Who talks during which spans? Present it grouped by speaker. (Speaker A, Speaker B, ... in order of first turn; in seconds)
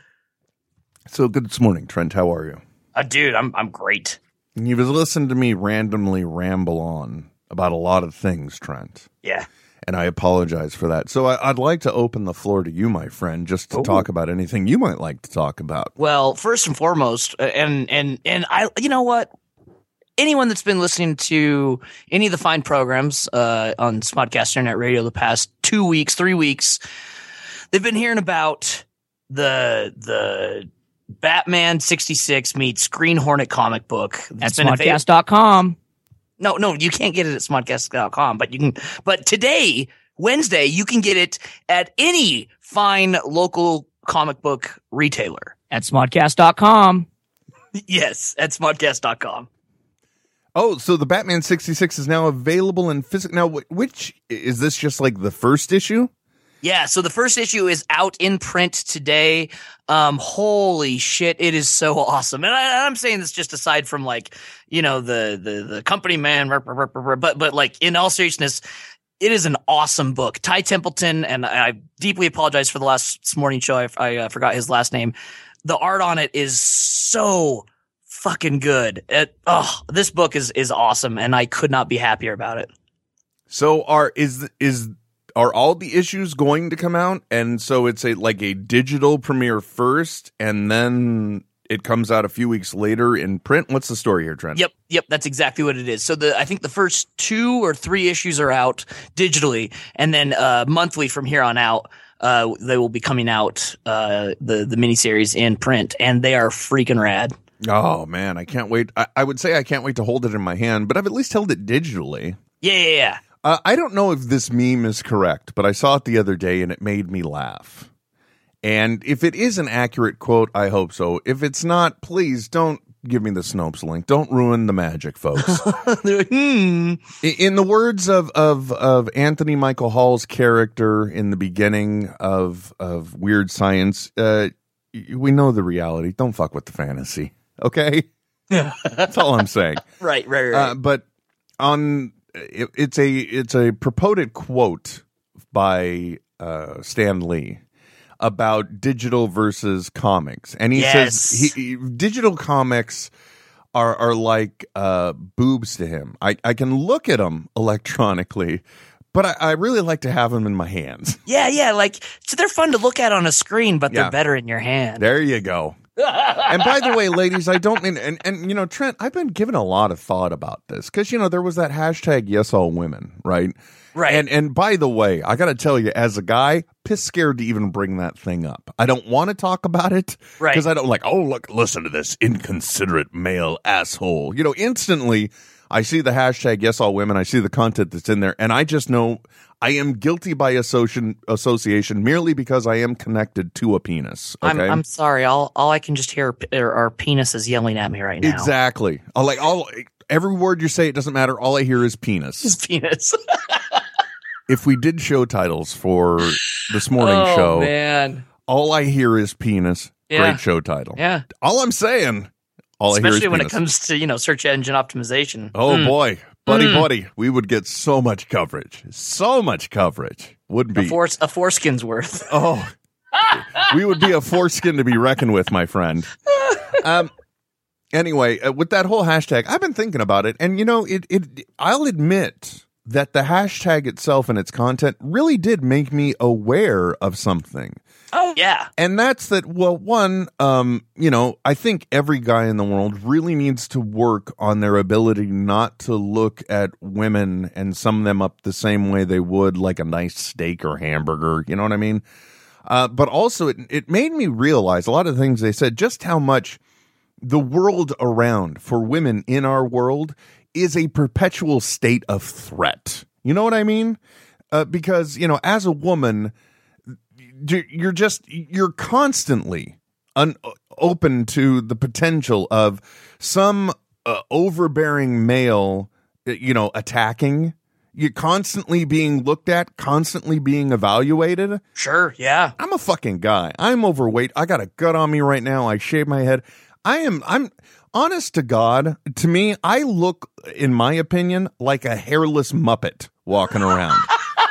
Speaker A: 1.1-2.6, 4.5-9.1, 9.8-15.9, 50.5-56.1, 83.5-94.7, 107.6-112.4, 113.4-117.9, 118.6-125.6, 127.2-138.1, 139.0-139.8, 140.5-141.0, 141.6-147.6, 148.2-153.1, 153.7-161.2, 163.9-164.1, 165.0-165.8, 166.4-194.8, 198.2-202.6, 204.5-207.7, 208.5-213.6, 215.5-221.0, 222.3-222.7, 223.4-227.1, 227.9-237.8, 238.8-252.0, 252.7-256.6, 257.2-264.0, 264.5-266.3, 267.2-281.6, 282.6-294.1
Speaker B: 2.9-4.2, 13.7-14.0, 16.0-19.3, 20.2-26.8, 27.7-30.7, 31.2-35.0, 36.4-45.6, 47.7-49.5, 56.6-68.6, 69.2-82.7, 94.5-107.3, 112.6-113.2, 125.4-127.0, 138.5-139.2, 140.0-140.7, 150.7-151.5, 161.2-165.1, 166.0-167.0, 173.9-174.2, 194.4-198.5, 202.4-203.8, 206.4-208.2, 210.1-210.4, 210.9-211.2, 212.9-215.9, 216.5-216.9, 220.7-222.3, 223.2-223.6, 238.1-238.7, 281.8-282.5
Speaker C: 34.4-35.8, 45.7-47.1